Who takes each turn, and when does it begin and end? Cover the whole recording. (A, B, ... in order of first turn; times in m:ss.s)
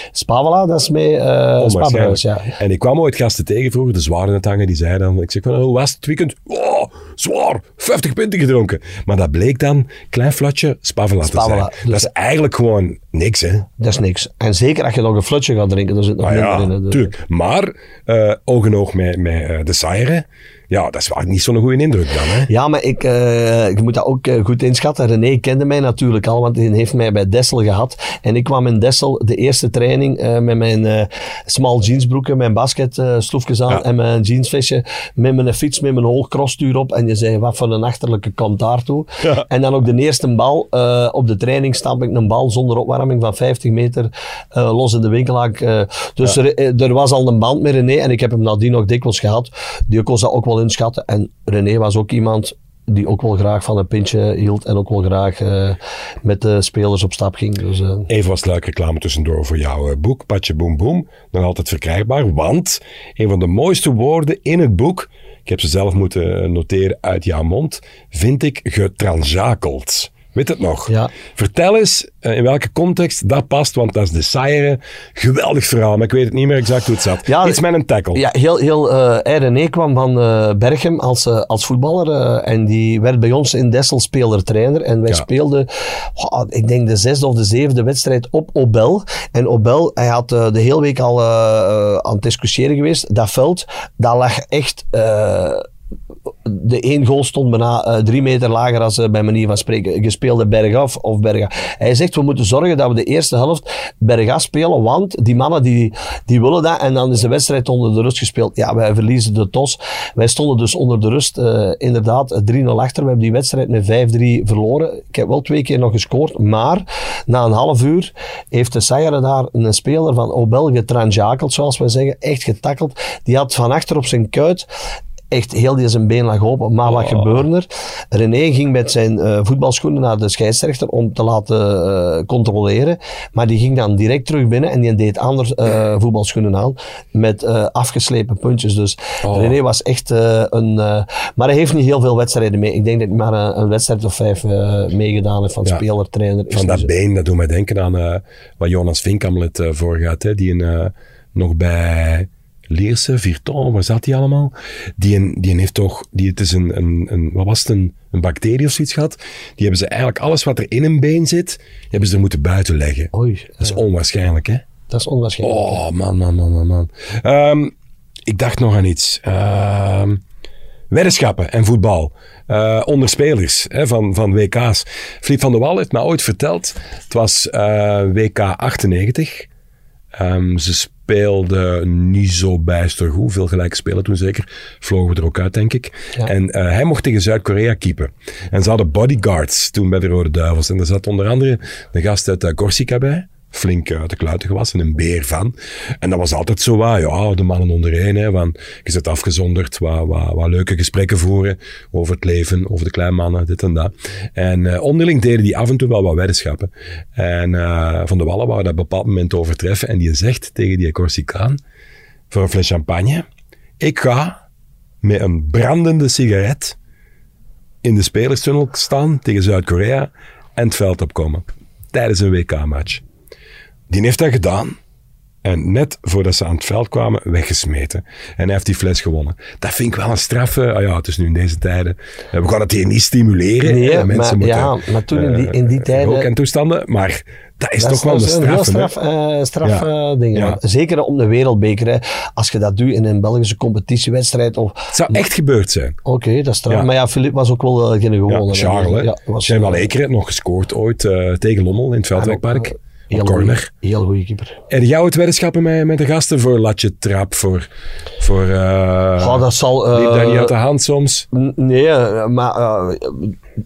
0:00.1-0:02.5 A
0:01.6-0:13.7 B
0:11.2-0:12.1 A
0:13.8-0:17.1 A
0:16.2-0:22.5 B
0:22.5-0:58.1 A
0:58.1-1:18.2 B
1:17.2-1:17.6 A
1:18.1-1:35.7 A
1:36.4-2:04.7 A
2:05.3-2:26.9 A
2:06.9-2:07.3 B
2:19.2-2:19.6 B
2:26.5-2:44.6 B
2:43.1-2:43.8 A
2:44.9-2:45.8 A
2:45.4-2:47.7 B
2:48.3-2:50.2 B
2:50.9-2:59.5 B
3:00.1-3:31.6 B
3:32.3-3:33.2 B
3:33.8-3:34.4 B
3:35.0-3:36.8 B
3:37.8-3:43.0 B
3:43.9-3:44.8 B
3:45.4-3:58.9 B
3:53.6-3:56.3 A
3:57.8-4:05.2 A
3:59.6-4:00.6 B
4:04.9-4:06.0 B
4:06.0-4:09.9 A
4:08.3-4:13.7 B
4:12.2-4:14.6 A
4:14.7-4:17.7 B
4:18.2-4:21.3 B
4:19.2-4:20.5 A
4:21.3-4:23.4 A